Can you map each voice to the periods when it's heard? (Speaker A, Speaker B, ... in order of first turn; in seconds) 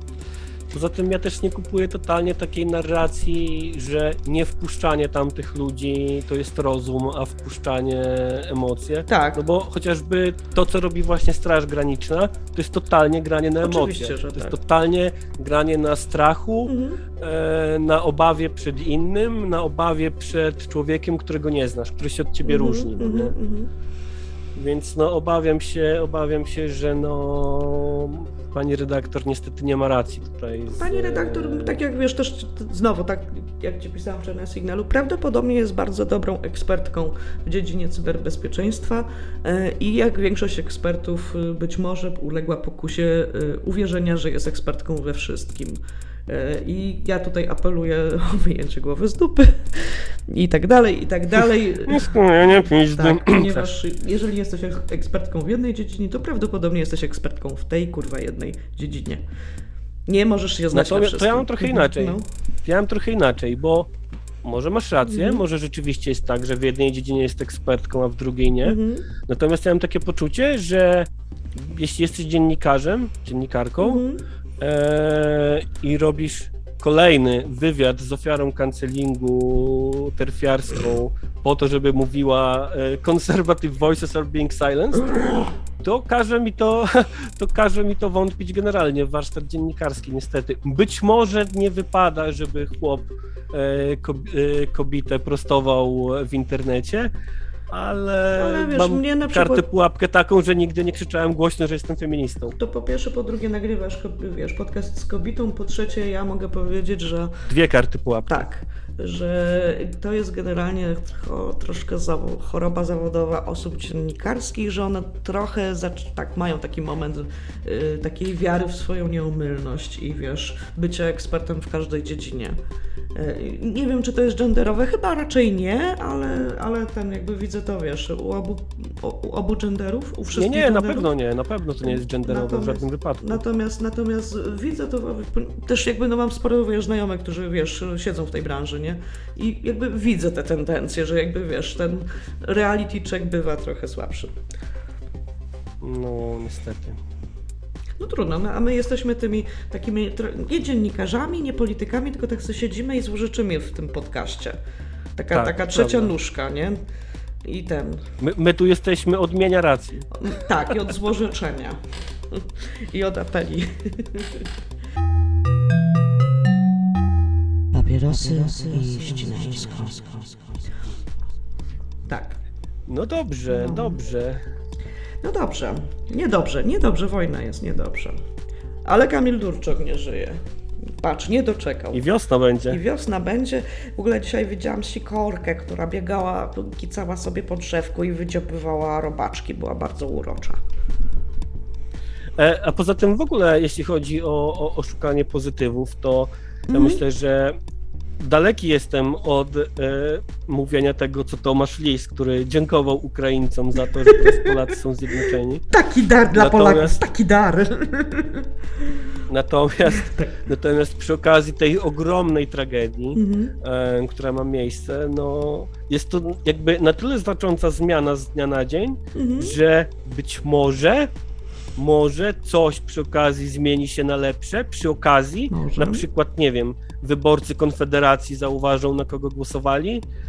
Speaker A: 0.7-23.4, 24.6-31.8, 51.9-53.7, 60.7-63.9, 64.4-74.0, 74.6-97.1, 97.7-102.6, 107.4-108.5, 130.3-133.4, 145.8-147.0, 155.3-156.1, 158.2-160.1, 172.9-174.4, 181.9-182.8, 192.4-197.6, 198.2-205.7, 206.3-207.0, 209.3-221.1, 221.8-230.1
Speaker B: 9.1-9.4, 13.6-14.6, 16.7-17.0, 22.5-23.7, 30.7-59.2, 60.1-62.3, 65.1-65.4, 68.6-69.1, 73.8-74.2, 98.4-99.7, 102.6-107.4, 108.3-122.6, 123.1-131.1, 131.8-144.3, 148.0-154.6, 155.2-156.8, 157.4-158.1, 160.1-164.5, 172.1-172.4, 173.5-174.0, 175.2-178.2, 178.8-182.0, 182.7-190.6, 196.7-197.0, 204.1-204.6, 205.7-209.2, 209.9-210.3, 213.2-213.6, 219.2-219.6, 225.5-226.1
Speaker C: 167.7-170.6